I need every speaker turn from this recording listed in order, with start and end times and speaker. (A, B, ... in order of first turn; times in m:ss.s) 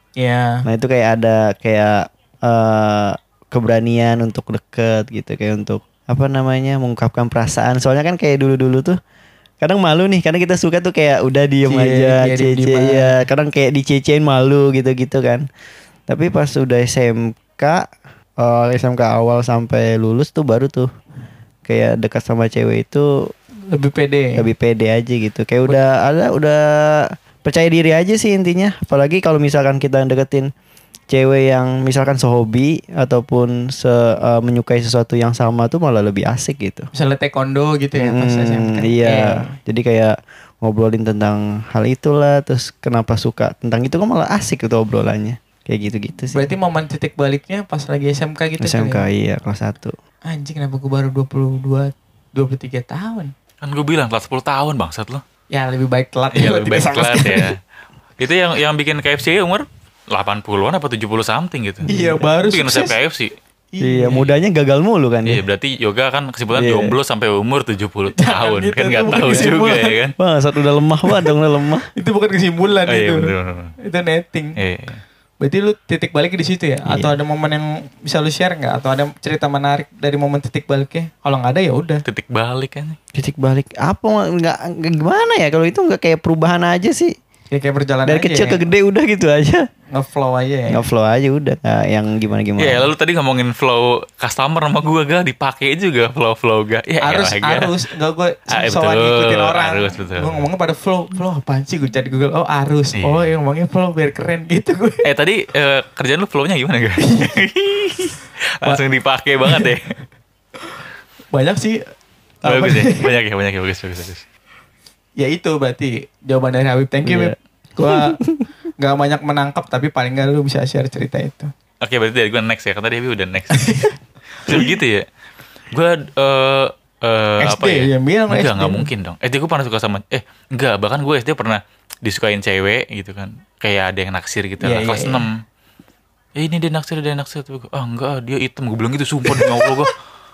0:00.2-0:00.6 A
0:00.6-0:09.0 B
0:09.6-0:15.5 B
0:11.6-0:13.2 A
0:16.1-0:20.9 B
0:21.6-0:23.3 B
0:23.7-0:24.5 A
0:24.4-0:30.5 B
0:31.1-0:36.9 B
0:36.9-0:39.5 A
0:38.0-0:46.5 B
0:46.3-0:49.1 A
0:48.6-0:49.9 B
0:50.3-0:53.3 A
0:53.6-0:55.2 C
0:55.5-0:57.5 A
0:56.3-0:57.6 C
0:58.2-1:01.9 C
1:01.9-1:02.3 B
1:01.9-1:03.0 A
1:02.4-1:03.3 C
1:03.7-1:04.3 A
1:03.8-1:05.4 B
1:05.3-1:10.2 C
1:06.5-1:07.0 B
1:08.2-1:10.0 A
1:09.2-1:09.7 B
1:10.2-1:11.9 B
1:12.0-1:14.6 A
1:12.9-1:13.8 C
1:14.6-1:15.0 C
1:15.4-1:22.0 A
1:16.9-1:17.1 B
1:22.1-1:23.0 C
1:23.2-1:27.1 B
1:27.5-1:28.6 A
1:28.0-1:29.6 B
1:29.9-1:30.8 A
1:30.7-1:32.9 B
1:32.6-1:37.7 C
1:37.0-1:45.1 A
1:38.5-1:40.4 C
1:43.0-1:43.3 C
1:45.0-1:49.9 C
1:47.0-1:47.4 A
1:49.4-1:49.7 A
1:51.3-1:51.8 A
1:52.4-1:53.1 A
1:52.4-1:54.2 C
1:55.2-1:58.2 A
1:57.0-1:58.5 B
1:58.8-2:01.5 A
2:01.8-2:03.9 C
2:03.5-2:03.9 A
2:04.4-2:05.0 C
2:05.7-2:15.4 C
2:07.4-2:08.9 A
2:14.6-2:15.2 A
2:16.4-2:20.0 C
2:19.3-2:19.7 A